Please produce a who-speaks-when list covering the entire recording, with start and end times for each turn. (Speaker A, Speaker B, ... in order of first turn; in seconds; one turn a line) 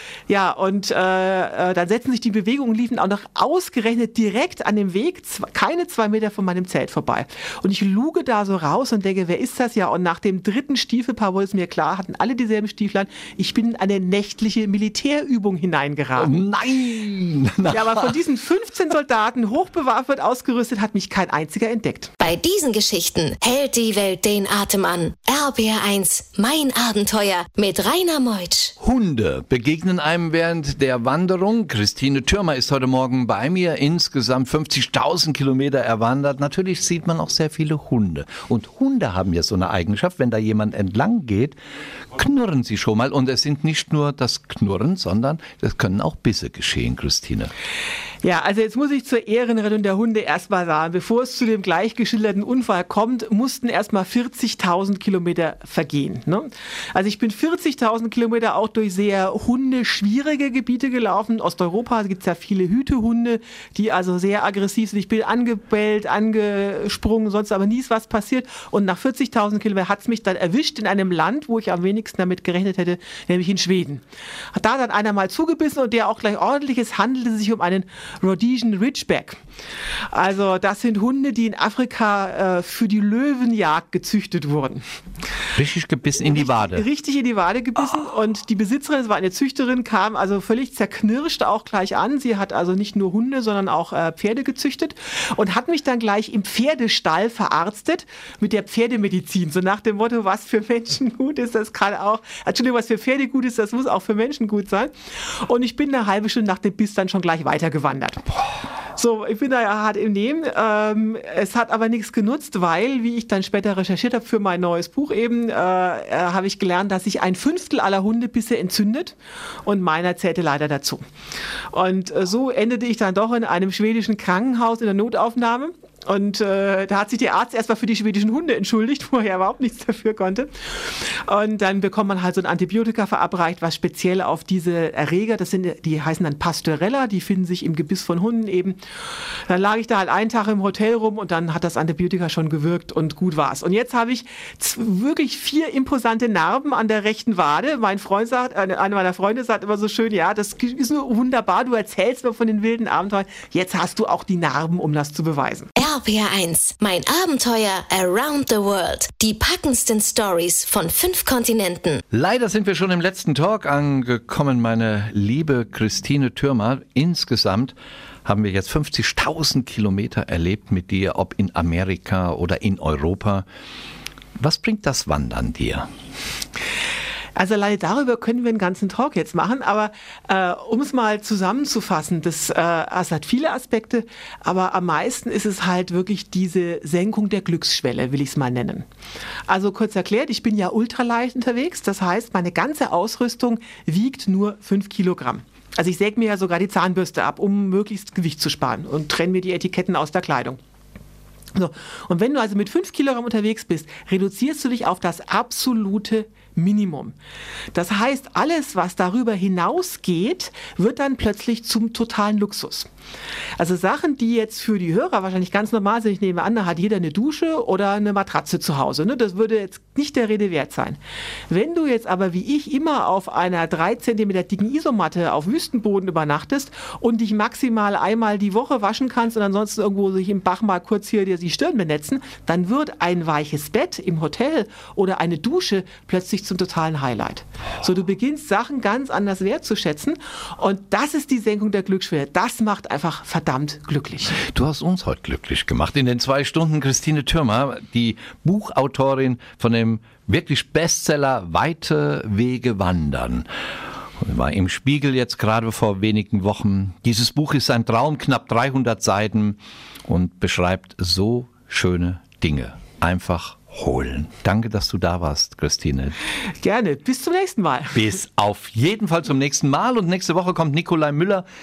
Speaker A: 0.3-16.3
Speaker B: 16.2-18.2
Speaker A: 17.7-22.1
Speaker C: 22.2-28.7
Speaker B: 28.8-41.5
Speaker B: 42.1-47.5
Speaker A: 48.2-74.0
Speaker A: 74.5-79.4
Speaker A: 80.1-84.8
Speaker B: 85.6-86.8
Speaker A: 86.3-108.3
Speaker A: 109.0-121.0
Speaker A: 121.7-130.5
Speaker A: 131.2-138.8
Speaker A: 139.5-155.7
Speaker C: 155.8-162.0
Speaker B: 162.1-167.7
Speaker B: 168.2-173.4
Speaker B: 174.4-175.9
Speaker A: 177.4-188.9
Speaker A: 189.5-200.6
Speaker A: 201.6-207.2
Speaker A: 207.7-212.9
Speaker A: 213.6-244.4
Speaker B: 244.5-253.5
Speaker B: 254.2-266.2
Speaker A: 266.6-268.0
Speaker B: 267.9-271.4